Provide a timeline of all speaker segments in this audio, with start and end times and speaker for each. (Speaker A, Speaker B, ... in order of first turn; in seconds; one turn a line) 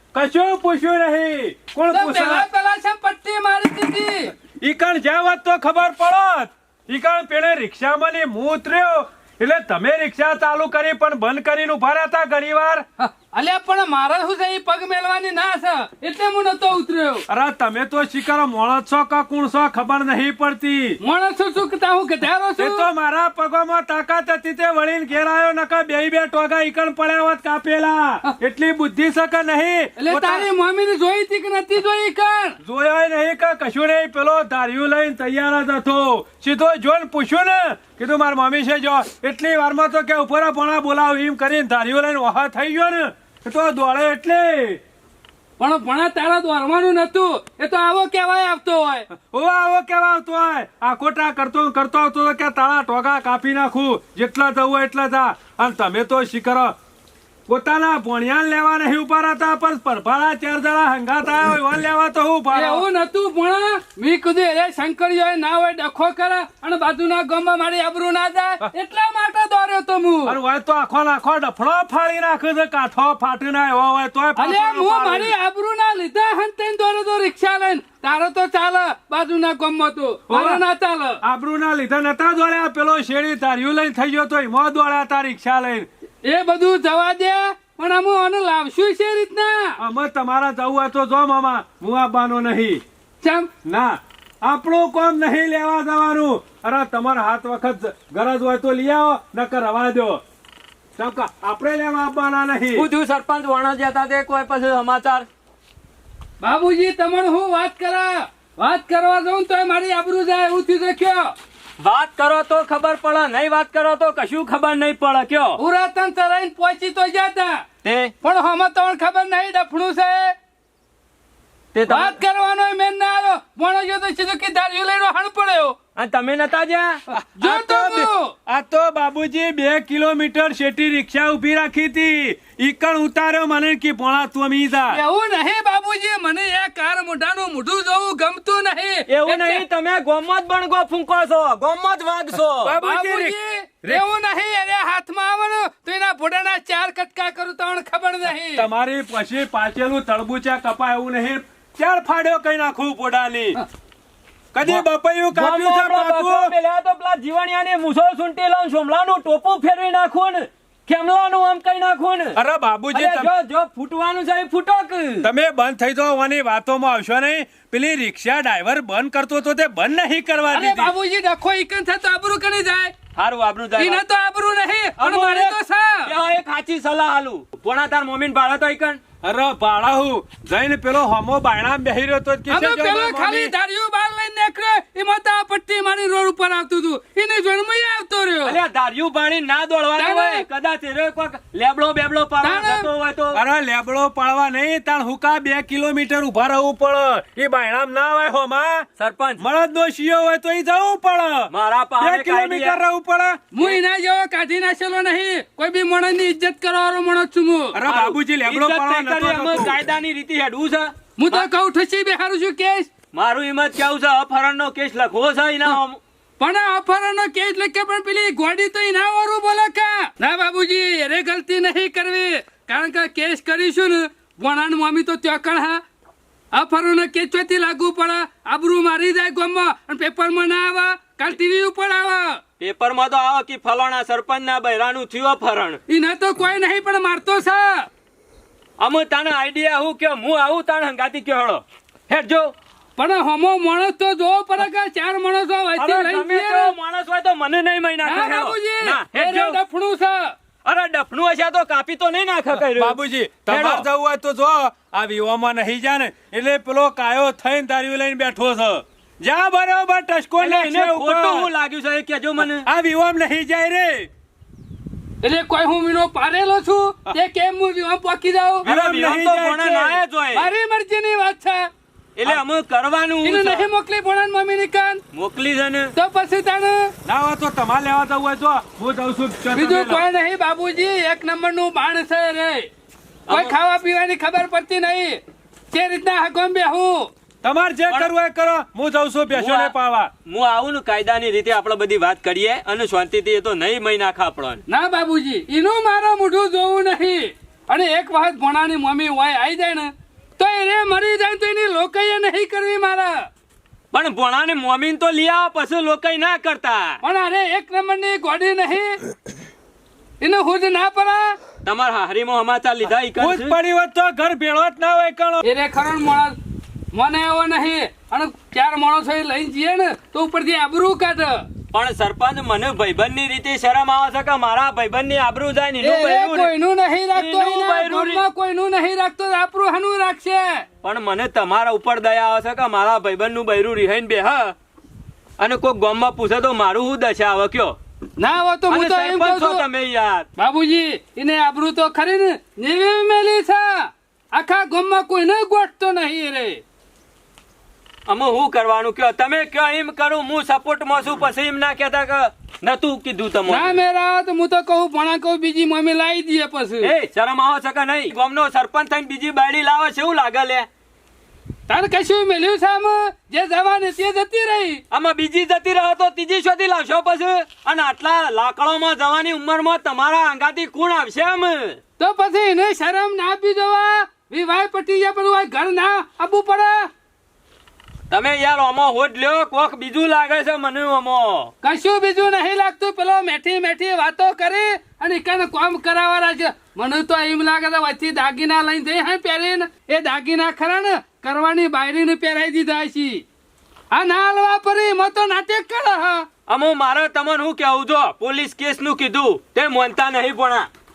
Speaker A: 0.1-2.5
Speaker B: 1.9-4.3
Speaker A: 4.5-12.8
Speaker B: 13.0-17.2
Speaker A: 17.3-21.0
Speaker B: 21.0-22.9
Speaker A: 22.6-30.5
Speaker B: 30.0-32.6
Speaker A: 32.6-44.8
Speaker B: 45.6-49.1
Speaker A: 49.2-56.7
Speaker A: 57.5-62.8
Speaker B: 62.5-70.4
Speaker A: 70.2-75.3
Speaker B: 74.3-81.2
Speaker A: 80.3-80.6
Speaker A: 81.2-85.9
Speaker B: 86.2-89.8
Speaker A: 89.8-92.8
Speaker B: 93.2-93.5
Speaker A: 93.6-100.2
Speaker A: 101.0-102.9
Speaker C: 102.7-105.3
Speaker B: 106.4-111.3
Speaker C: 111.8-115.6
Speaker B: 115.6-117.6
Speaker C: 117.8-118.1
Speaker B: 118.2-120.3
Speaker C: 121.7-122.2
Speaker B: 121.9-125.8
Speaker C: 126.0-127.0
Speaker A: 127.1-135.0
Speaker B: 127.4-128.3
Speaker B: 134.9-139.6
Speaker C: 139.1-142.8
Speaker A: 142.6-144.0
Speaker B: 142.8-148.7
Speaker A: 148.6-153.6
Speaker A: 154.5-156.5
Speaker C: 154.6-162.4
Speaker A: 162.3-163.3
Speaker C: 162.9-165.3
Speaker A: 165.2-170.9
Speaker B: 170.5-172.9
Speaker C: 173.2-174.0
Speaker B: 173.8-176.1
Speaker C: 175.0-179.0
Speaker A: 179.2-183.5
Speaker B: 182.5-188.6
Speaker C: 188.4-193.4
Speaker B: 190.0-190.4
Speaker B: 192.4-192.9
Speaker A: 193.3-198.8
Speaker C: 199.0-199.4
Speaker A: 199.4-203.4
Speaker C: 201.5-202.8
Speaker B: 203.5-207.8
Speaker A: 207.7-209.8
Speaker C: 207.8-211.5
Speaker B: 211.2-212.9
Speaker C: 213.1-216.0
Speaker B: 216.4-225.8
Speaker B: 226.5-232.4
Speaker C: 232.6-235.8
Speaker B: 235.9-237.9
Speaker C: 238.8-242.5
Speaker B: 243.0-246.7
Speaker C: 245.8-249.6
Speaker B: 248.1-250.3
Speaker C: 250.6-253.8
Speaker A: 252.6-261.5
Speaker C: 260.4-262.7
Speaker A: 262.6-264.1
Speaker B: 265.2-268.6
Speaker A: 268.6-270.0
Speaker C: 268.6-270.5
Speaker B: 270.3-271.7
Speaker C: 272.2-273.7
Speaker B: 273.2-275.0
Speaker C: 275.1-275.9
Speaker B: 275.9-276.9
Speaker A: 277.1-280.0
Speaker B: 279.5-282.7
Speaker C: 283.3-283.5
Speaker B: 283.3-285.2
Speaker B: 285.7-287.1
Speaker A: 287.4-290.1
Speaker C: 289.3-289.7
Speaker C: 290.3-294.6
Speaker B: 294.7-303.3
Speaker C: 303.9-307.0
Speaker B: 307.0-309.0
Speaker B: 310.2-311.4
Speaker C: 311.6-313.6
Speaker A: 313.2-315.4
Speaker B: 315.4-316.4
Speaker B: 316.9-321.5
Speaker C: 321.7-326.5
Speaker B: 325.8-330.7
Speaker C: 327.1-328.2
Speaker C: 330.8-334.5
Speaker C: 335.4-337.8
Speaker B: 338.2-339.6
Speaker C: 338.7-340.3
Speaker B: 340.4-346.6
Speaker C: 348.1-353.8
Speaker B: 353.5-356.9
Speaker C: 356.8-360.7
Speaker B: 361.7-364.8
Speaker C: 364.9-371.8
Speaker B: 372.0-376.9
Speaker C: 378.1-381.5
Speaker B: 381.6-393.2
Speaker B: 393.9-396.3
Speaker C: 396.5-400.7